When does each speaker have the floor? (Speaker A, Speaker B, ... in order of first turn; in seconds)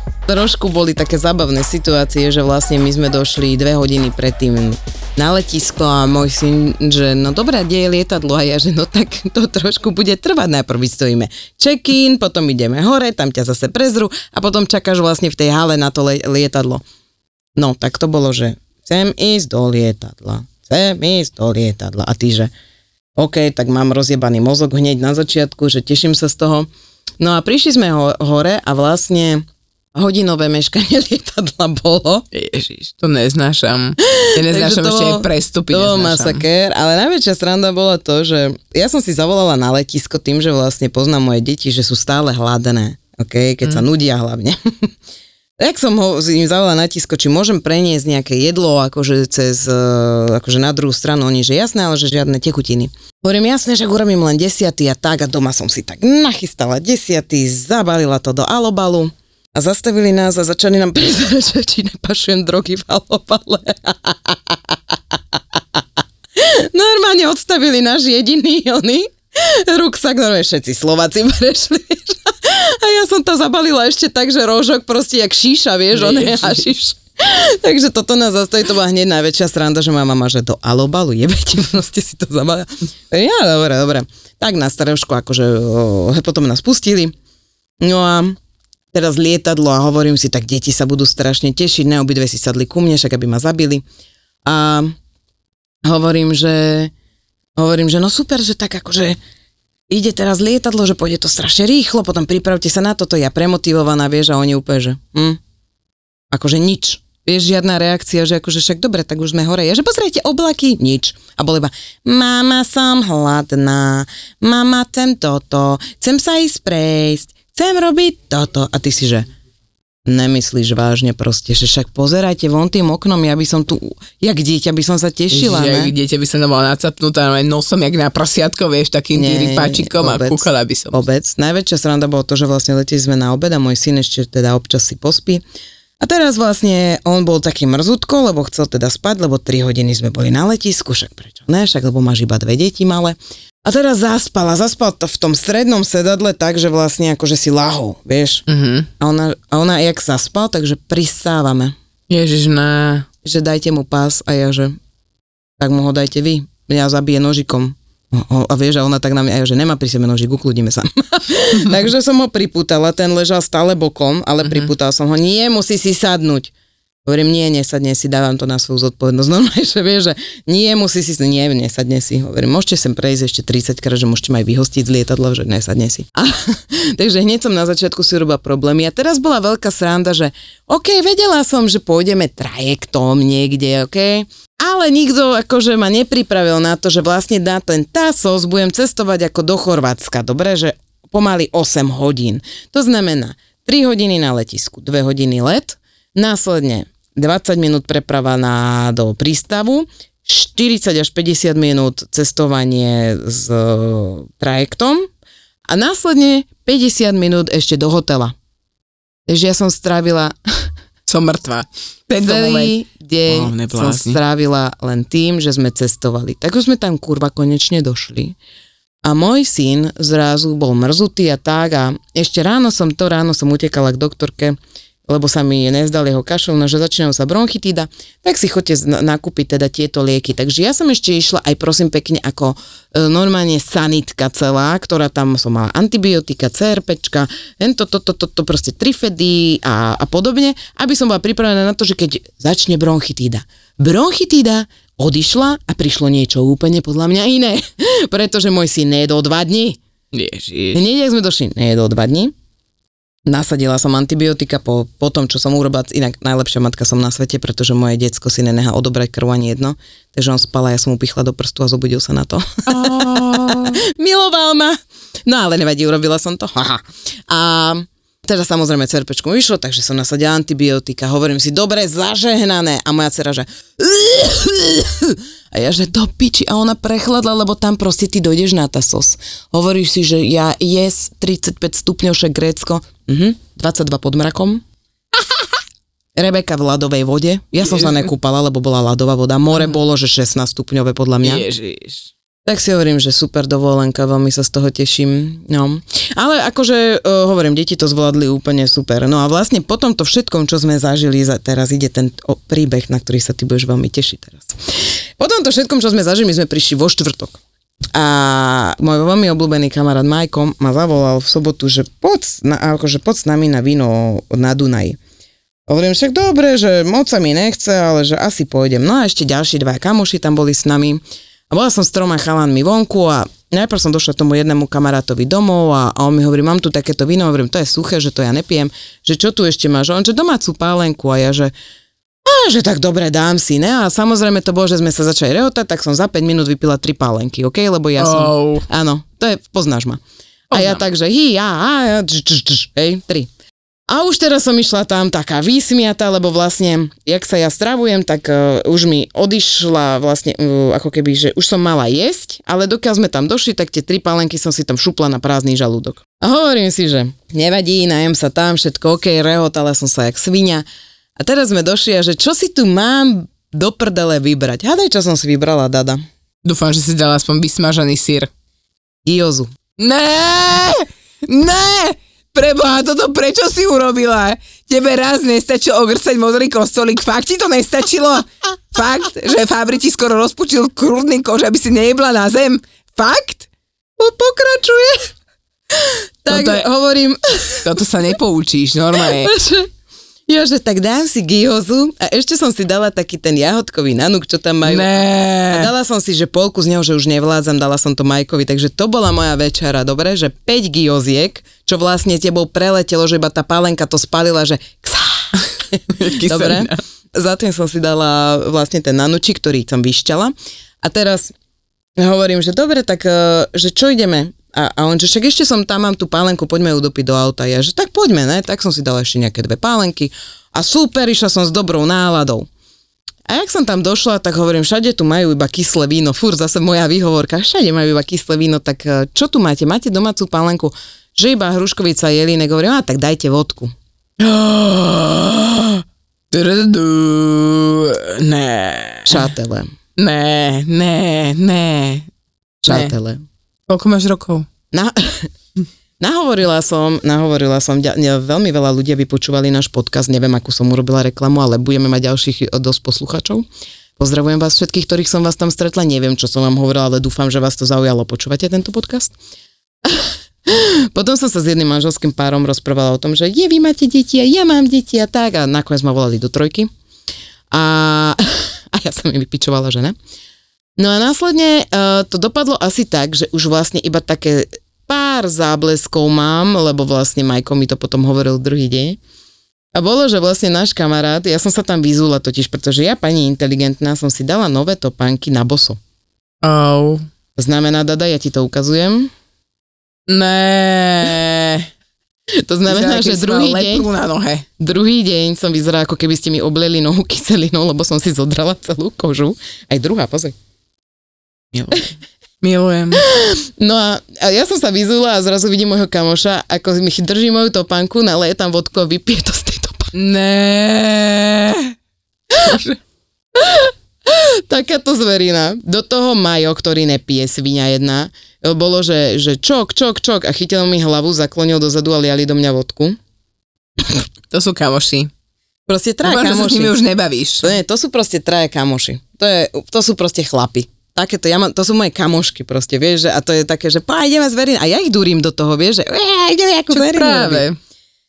Speaker A: 0.3-16.8, 17.6-22.5, 23.2-26.7, 27.2-32.2, 34.0-44.9, 45.6-64.8, 66.4-87.1, 87.8-88.4, 88.9-93.8, 94.5-95.0, 95.8-96.9, 97.6-99.2, 99.9-105.4, 106.3-119.3, 120.1-125.9, 129.2-135.4, 136.0-148.4, 149.0-151.8, 153.2-154.8, 155.6-166.5, 167.1-205.1, 205.7-208.3, 209.3-210.3, 212.2-218.4, 219.1-249.8, 250.7-252.3, 253.3-284.6, 286.2-291.5, 292.5-304.6, 305.2-307.4, 307.9-315.0, 315.7-331.5, 332.2-340.0, 340.5-343.3, 343.9-360.6, 361.2-366.0, 369.1-369.5, 384.0-385.1, 385.7-387.7, 389.0-389.7, 390.3-394.9, 395.5-411.3, 412.0-422.5, 423.3-433.7, 439.1-439.7, 442.6-443.2, 444.7-445.3, 446.0-453.5, 454.0-459.1, 459.9-466.7, 467.5-469.9, 470.8-479.0, 479.8-485.8, 487.4-489.1, 492.4-493.9, 494.6-500.4, 503.0-509.9, 513.4-523.0, 525.7-526.8, 527.4-537.5
Speaker B: 32.3-36.5, 75.9-76.7, 125.3-131.0, 148.5-148.9, 152.1-153.1, 164.4-164.7, 211.1-214.2, 250.1-250.8, 262.7-263.8, 287.7-288.0, 291.2-292.1, 338.0-338.7, 340.5-340.8, 366.4-368.3, 369.8-383.5, 386.3-386.7, 387.6-389.3, 394.6-395.7, 405.9-406.8, 434.2-439.3, 440.0-442.1, 442.7-442.9, 443.7-444.5, 486.4-487.1, 490.1-491.7, 492.7-494.5, 501.5-501.8, 502.4-503.0, 509.9-511.7, 512.4-512.8, 524.3-525.1, 526.0-527.5, 536.7-537.6